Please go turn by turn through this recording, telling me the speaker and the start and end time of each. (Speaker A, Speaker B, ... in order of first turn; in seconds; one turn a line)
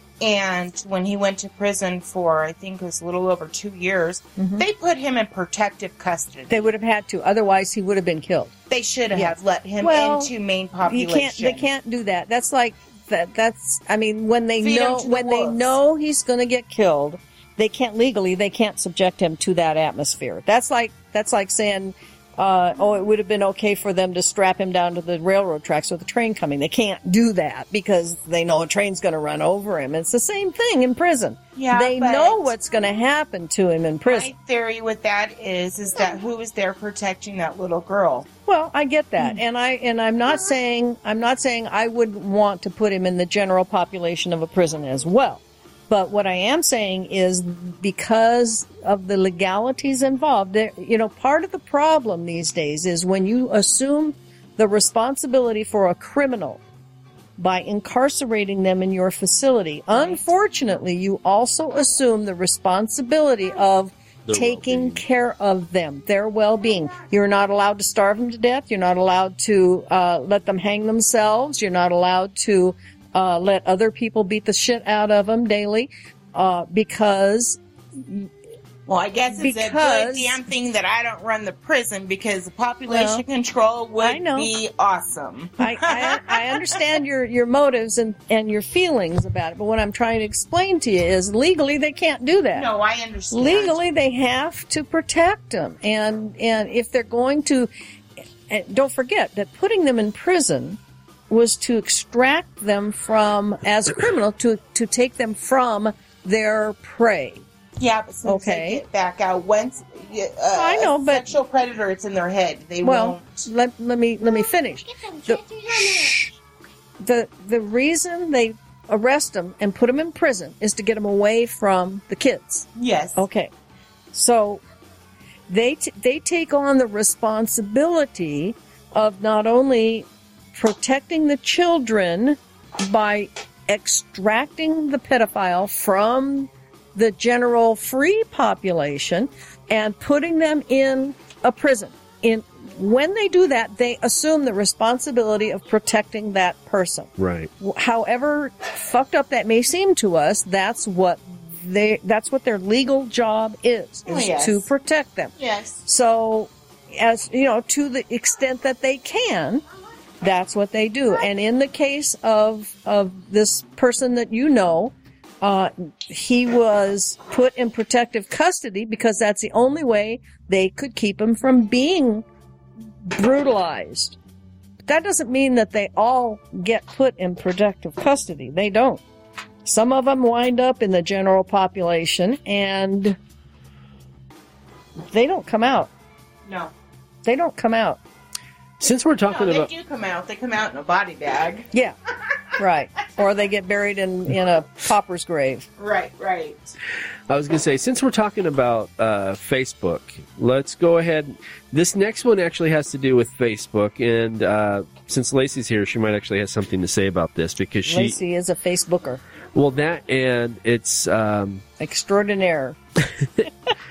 Speaker A: 0.2-6.7
Speaker B: 4.4-4.6
Speaker B: 6.5-8.5
Speaker A: 8.7-11.7
Speaker B: 9.1-34.3
Speaker A: 14.6-15.8
Speaker A: 31.6-32.5
Speaker A: 34.1-38.3
Speaker B: 38.5-56.6
Speaker B: 57.4-78.3
Speaker A: 59.9-60.2
Speaker C: 64.2-65.0
Speaker A: 78.9-86.7
Speaker B: 79.3-80.4
Speaker B: 82.9-83.2
Speaker B: 84.0-84.5
Speaker B: 85.6-92.7
Speaker A: 92.5-93.8
Speaker B: 93.3-97.7
Speaker B: 98.5-100.8
Speaker B: 101.3-107.4
Speaker A: 107.8-113.5
Speaker B: 108.2-108.8
Speaker B: 110.5-111.3
Speaker B: 112.8-116.3
Speaker A: 115.0-116.3
Speaker B: 117.0-123.5
Speaker A: 122.8-123.2
Speaker B: 124.1-124.6
Speaker B: 125.5-159.6
Speaker C: 147.2-147.5
Speaker A: 154.1-154.7
Speaker A: 155.4-155.8
Speaker B: 160.2-172.2
Speaker B: 173.1-174.2
Speaker B: 174.9-179.0
Speaker B: 179.6-183.2
Speaker B: 185.1-185.9
Speaker A: 186.4-186.7
Speaker B: 187.2-188.0
Speaker C: 188.8-189.7
Speaker A: 189.2-191.7
Speaker B: 192.6-195.7
Speaker A: 195.8-196.7
Speaker C: 197.3-208.2
Speaker B: 207.9-209.2
Speaker C: 209.5-211.6
Speaker B: 211.8-212.8
Speaker C: 213.0-213.5